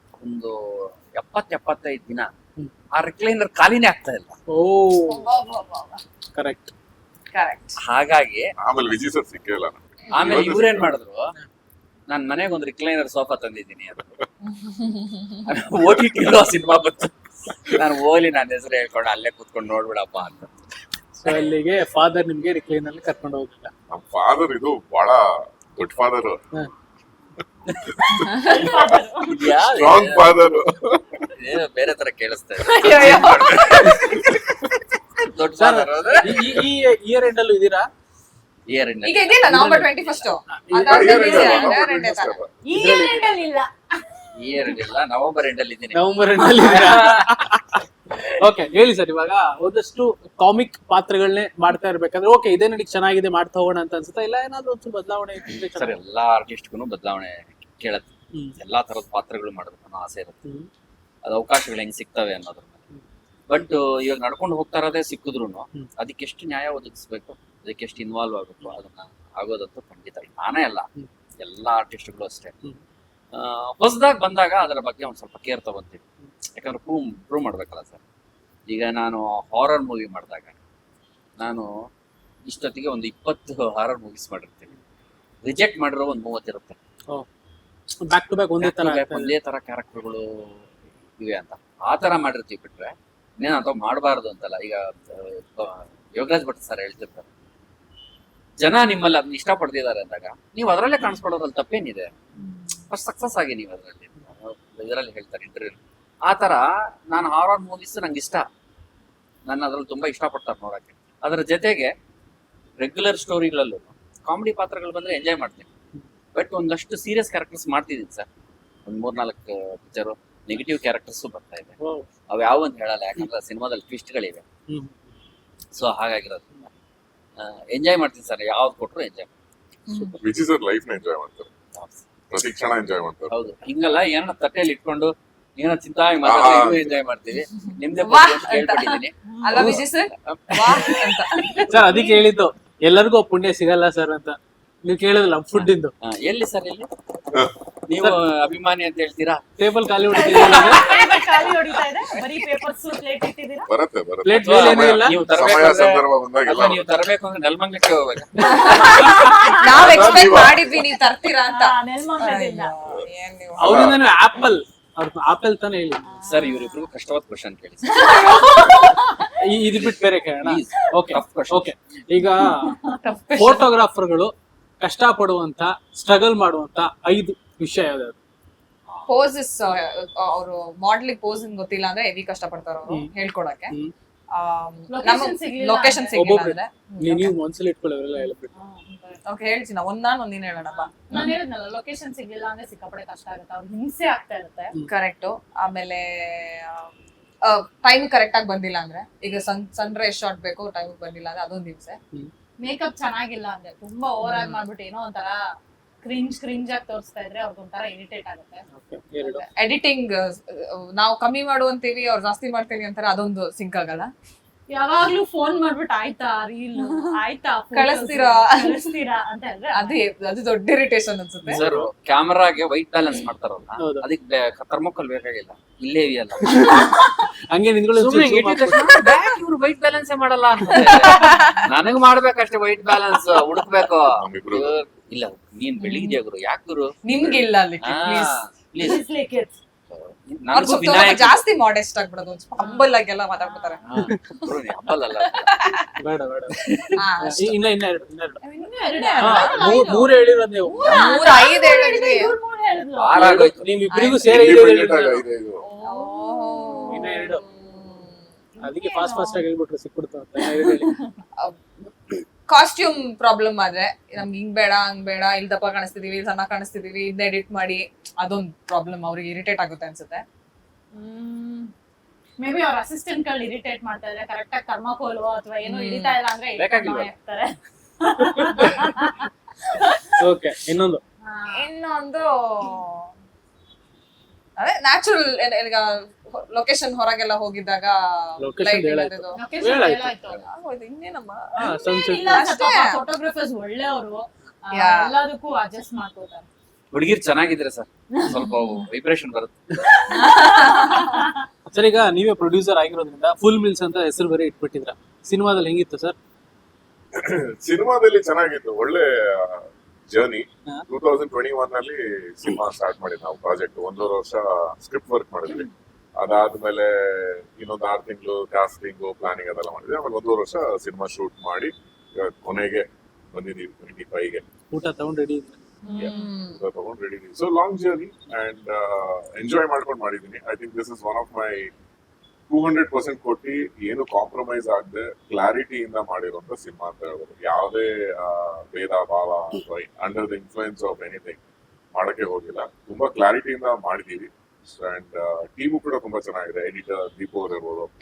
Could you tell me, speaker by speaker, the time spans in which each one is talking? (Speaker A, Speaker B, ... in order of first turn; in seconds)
Speaker A: 0.2-2.3, 3.0-4.4, 7.8-8.5, 10.1-11.3, 12.1-14.1, 15.5-20.5, 29.3-30.3, 31.4-33.6, 35.2-36.5, 38.7-40.3, 44.4-47.3, 55.7-60.4, 61.2-62.8, 63.5-70.9, 71.4-72.5, 73.3-76.0, 76.6-78.0, 78.7-80.6, 81.4-81.7, 82.5-84.7, 85.4-86.8, 88.6-97.3, 98.6-102.1, 102.9-108.5, 109.5-111.9, 112.8-115.7, 116.3-118.3, 118.9-121.8, 122.3-124.4, 125.7-126.7, 127.4-129.3, 131.7-132.1, 133.3-140.9, 145.5-146.9, 147.9-149.4, 150.2-150.7, 154.4-159.3, 166.2-168.4, 169.8-171.7, 221.5-226.7, 228.0-239.0, 239.9-241.4, 243.8-245.5, 246.7-247.0, 252.9-253.7, 276.6-277.1, 296.9-299.9
Speaker B: 4.5-5.3, 6.3-6.7, 21.2-23.7, 35.6-37.9, 39.5-41.6, 42.7-43.4, 45.9-56.0, 88.0-89.3, 121.8-122.1, 124.7-125.1, 139.6-139.9, 141.7-145.9, 149.6-150.9, 154.2-155.8, 163.6-166.1, 169.4-172.8, 173.3-178.2, 182.9-183.1, 186.1-188.5, 208.7-209.4, 221.4-221.9, 223.8-224.1, 226.4-226.9, 227.5-229.0, 243.9-244.2, 246.0-246.6, 247.2-248.4, 249.2-250.9, 253.2-255.3, 256.9-257.4, 258.6-260.9, 278.4-278.7, 280.2-281.0, 288.4-290.1, 291.6-292.4, 301.7-306.2, 324.7-325.6
Speaker C: 5.1-6.0, 7.3-7.8, 14.5-15.4, 28.3-28.7, 32.6-34.2, 39.0-42.4, 129.9-130.2, 138.0-141.7, 158.5-163.9, 172.9-173.6, 179.1-183.7, 184.3-187.3, 189.3-190.9, 194.9-196.9, 197.4-202.0, 204.2-204.6, 209.2-214.1, 217.7-218.8, 219.7-221.6, 230.7-231.7, 235.8-236.2, 237.1-238.4, 240.5-243.8, 245.4-245.9, 247.0-247.6, 248.4-250.1, 250.8-252.3, 253.9-254.7, 255.6-258.2, 261.4-270.2, 275.6-276.2, 281.5-283.1, 284.6-289.4, 290.4-293.0, 294.7-295.1, 300.1-301.2, 325.9-326.6
Speaker D: 8.6-11.0, 23.9-26.4, 27.9-31.3, 33.1-34.9, 40.8-42.5, 130.2-131.5, 132.3-133.3, 136.2-136.9, 153.7-156.9, 159.7-160.8, 163.6-164.0, 234.1-234.8, 254.2-255.6, 307.2-315.7, 316.2-324.4, 326.0-331.7, 332.5-341.4, 341.9-347.9
Speaker E: 28.3-29.5, 41.3-41.8, 42.7-44.8, 102.4-102.7, 141.8-142.3, 150.1-153.7, 159.1-160.0, 161.5-162.7, 166.1-166.9, 167.9-169.3, 172.4-173.0, 184.9-186.3, 188.6-189.2, 190.7-194.7, 202.6-205.4, 206.0-208.6, 214.7-220.0, 238.8-239.6, 242.6-243.8, 248.5-253.4, 255.8-257.1, 258.6-259.4, 260.4-261.2, 270.9-271.7, 272.4-280.0, 281.2-281.7, 289.3-290.4, 291.8-296.5, 300.0-301.4, 325.9-326.3